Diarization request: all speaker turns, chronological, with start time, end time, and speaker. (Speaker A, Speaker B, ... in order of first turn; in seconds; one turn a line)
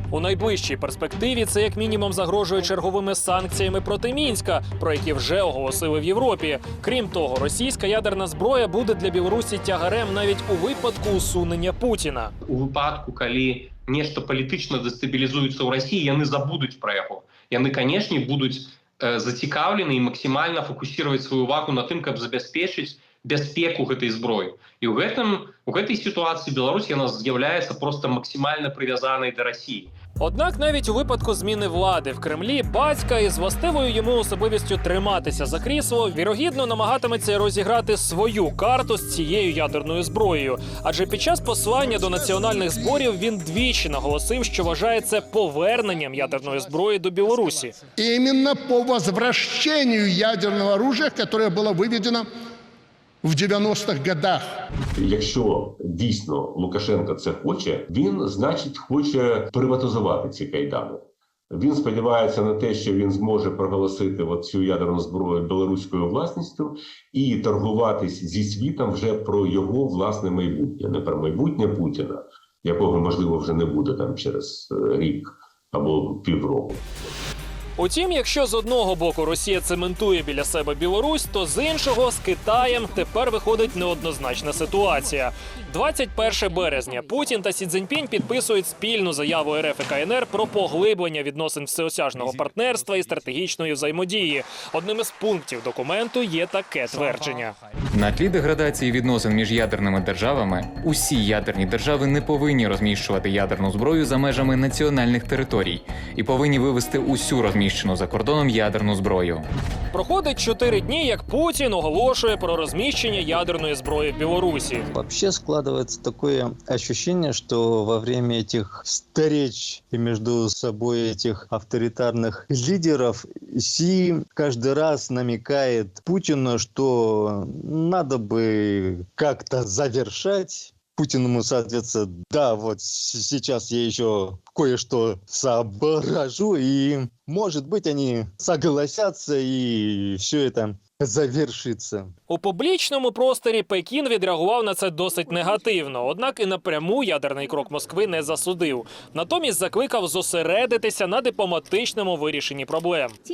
Speaker A: 0.1-12.3
Speaker B: 12.5-29.9
Speaker A: 30.2-47.8
Speaker C: 41.6-43.1
Speaker C: 44.4-52.2
Speaker C: 53.2-54.5
Speaker D: 55.0-76.8
Speaker A: 77.8-97.5
Speaker E: 97.9-109.5
Speaker A: 109.9-114.9
Speaker F: 114.9-142.1
Speaker A: 142.3-153.2